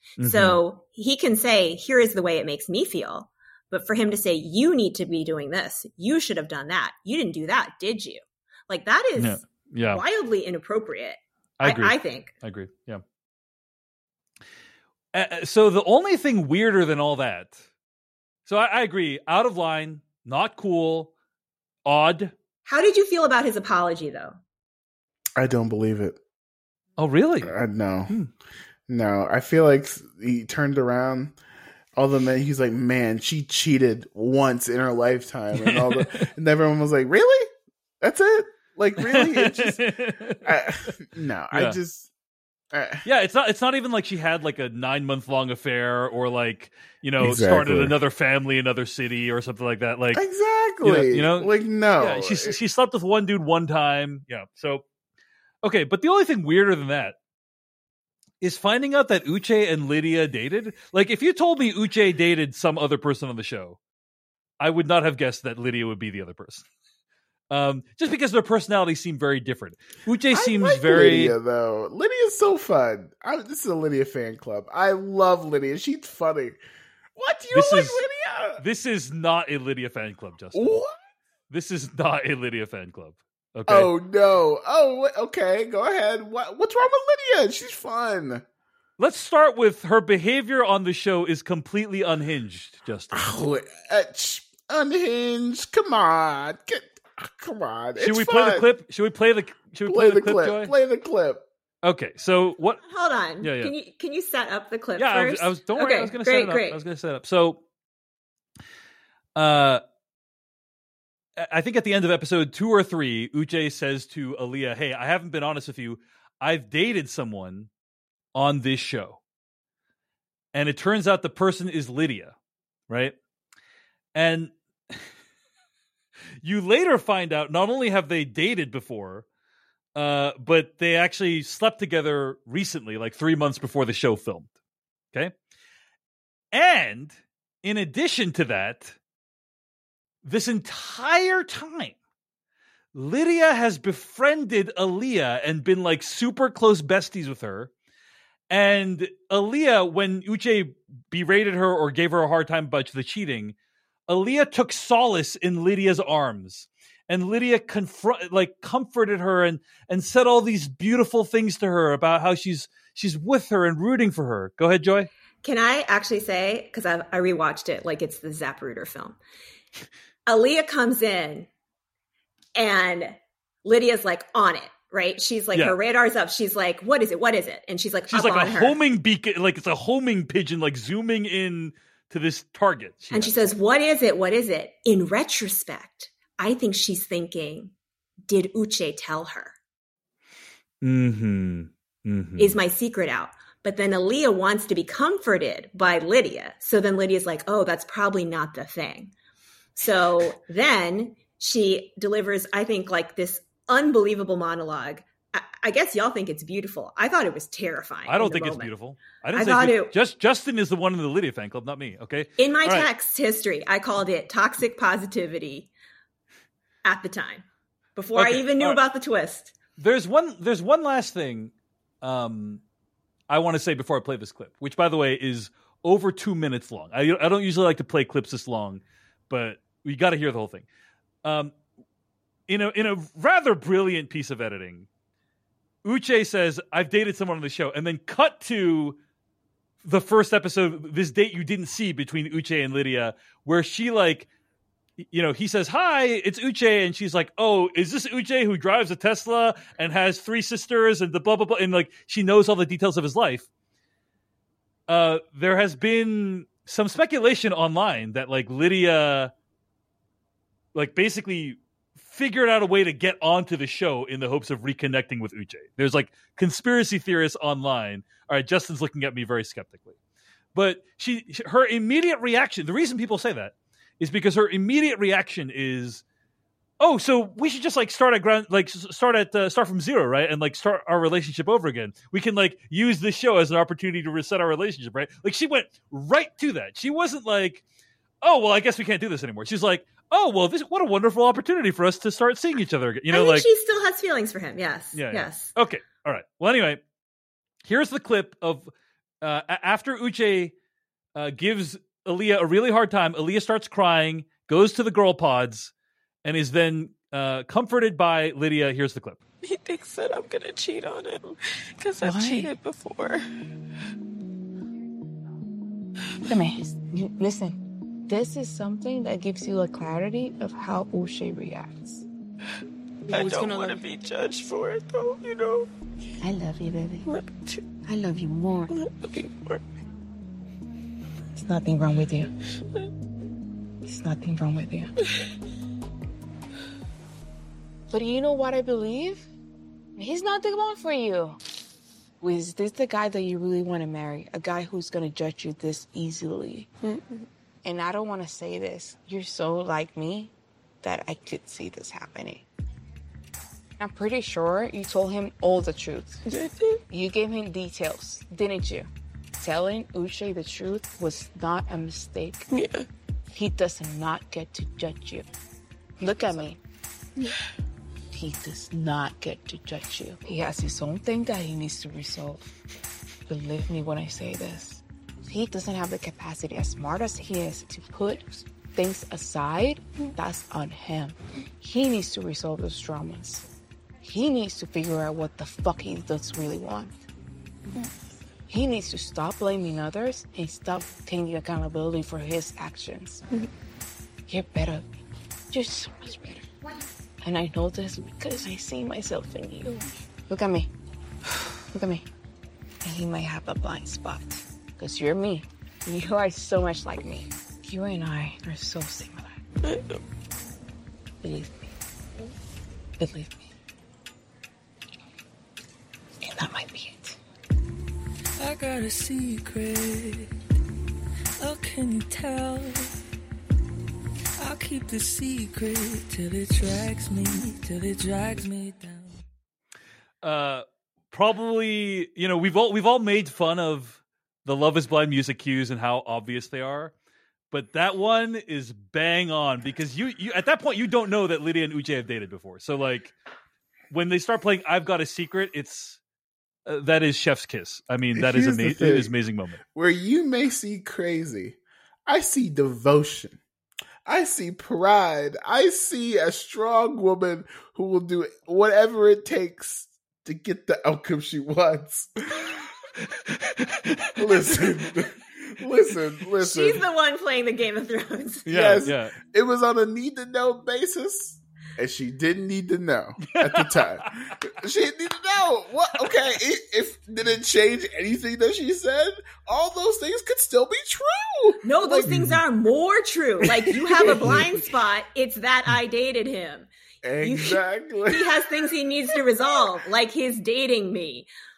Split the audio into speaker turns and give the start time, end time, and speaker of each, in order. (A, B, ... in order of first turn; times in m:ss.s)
0:00.2-0:00.6 A
0:00.2-0:12.3 B
0:09.2-0:10.0 A
0:11.6-0:13.0 A
0:15.1-0:17.6 A
0:18.4-0:21.1 A
0:21.8-0:22.3 A
0:22.6-0:24.4 B
0:25.4-0:26.2 C
0:27.0-0:27.5 A
0:27.4-0:28.1 C
0:28.9-0:31.3 C
0:32.0-0:37.5 C
0:35.5-0:36.3 A
0:38.0-0:39.9 C
0:39.0-0:40.6 A
0:40.4-0:42.1 C
0:41.5-0:41.8 A
0:42.7-0:43.0 C
0:43.0-0:50.2 A
0:47.2-0:47.9 C
0:50.1-0:52.6 C
0:50.8-0:54.8 A
0:55.6-0:57.2 A
0:58.4-1:03.8 A
1:04.6-1:06.6 A
1:07.5-1:11.4 A
1:10.3-1:16.6 C
1:17.2-1:18.6 C
1:17.5-1:18.0 A
1:18.6-1:20.8 A
1:20.5-1:20.9 C
1:21.5-1:23.9 A
1:23.7-1:28.4 C
1:29.0-1:33.5 A
1:33.1-1:38.7 C
1:38.0-1:40.7 A
1:39.8-1:41.4 C
1:41.8-1:42.8 A
1:42.9-1:46.8 B
1:43.4-1:43.7 A
1:45.0-1:47.6 A
1:49.3-1:49.8 A
1:51.4-1:57.7 A
1:58.3-1:59.2 A
2:00.5-2:02.3 A
2:02.9-2:03.2 A
2:04.1-2:05.1 A
2:06.4-2:09.2 A
2:09.9-2:14.5 A
2:16.5-2:19.0 A
2:20.2-2:22.0 A
2:22.9-2:27.7 A
2:28.5-2:33.5 A
2:34.1-2:45.1 A
2:45.4-2:49.2 B
2:50.3-2:51.5 B
2:52.5-2:58.8 B
2:58.1-3:03.4 A
3:03.1-3:07.7 B
3:08.3-3:09.6 B
3:10.8-3:12.6 A
3:12.4-3:19.1 B
3:19.8-3:28.7 B
3:28.1-3:32.9 A
3:29.3-3:29.9 B
3:32.4-3:35.7 B
3:36.8-3:37.4 B
3:38.0-3:39.5 B
3:38.1-3:38.8 A
3:39.8-3:42.6 A
3:43.3-3:50.6 A
3:51.2-3:51.6 A
3:52.5-3:54.9 A
3:55.8-3:59.0 A
3:59.8-4:04.3 A
4:05.0-4:13.5 A
4:14.9-4:19.3 A
4:20.7-4:30.0 A
4:30.5-4:36.0 A
4:36.8-4:47.6 A
4:48.2-4:53.5 A
4:53.1-4:55.5 B
4:54.9-4:56.8 A
4:57.6-5:00.5 A
5:01.1-5:05.7 A
5:06.2-5:09.2 A
5:09.4-5:13.2 D
5:12.0-5:12.5 E
5:16.2-5:22.0 E
5:23.1-5:23.8 E
5:23.1-5:25.7 D
5:26.2-5:27.1 E
5:27.0-5:27.7 D
5:27.8-5:28.7 E
5:28.7-5:29.6 D
5:31.4-5:32.3 E
5:33.8-5:34.9 E
5:37.9-5:39.3 E
5:40.0-5:41.4 E
5:42.2-5:46.7 E
5:46.8-5:47.2 D
5:47.6-5:52.4 E
5:53.8-5:56.2 E
5:56.2-5:56.8 D
5:56.9-6:02.5 E
6:02.5-6:02.8 D
6:03.3-6:05.3 E
6:06.0-6:06.6 E
6:08.1-6:12.5 E
6:13.3-6:23.4 E
6:24.0-6:27.0 E
6:28.5-6:33.2 E
6:34.3-6:34.8 E
6:35.5-6:36.5 E
6:37.2-6:40.7 E
6:41.7-6:42.0 E
6:42.8-6:49.4 E
6:49.6-6:50.0 D
6:51.2-6:51.7 E
6:53.0-6:53.5 E
6:56.2-6:57.2 E
6:58.4-7:00.3 F
7:01.4-7:02.9 F
7:04.4-7:09.2 F
7:10.2-7:16.9 A
7:17.5-7:23.1 A
7:23.9-7:26.0 A
7:26.6-7:29.6 A
7:28.2-7:29.1 C
7:29.7-7:33.4 C
7:34.0-7:42.4 C
7:43.0-7:44.6 A
7:44.2-7:46.8 C
7:46.4-7:48.6 B
7:48.5-7:49.1 A
7:48.5-8:02.1 C
7:53.2-7:54.1 A
8:01.6-8:06.7 B
8:02.1-8:02.4 A
8:03.8-8:04.4 C
8:07.0-8:08.3 C
8:07.2-8:11.3 B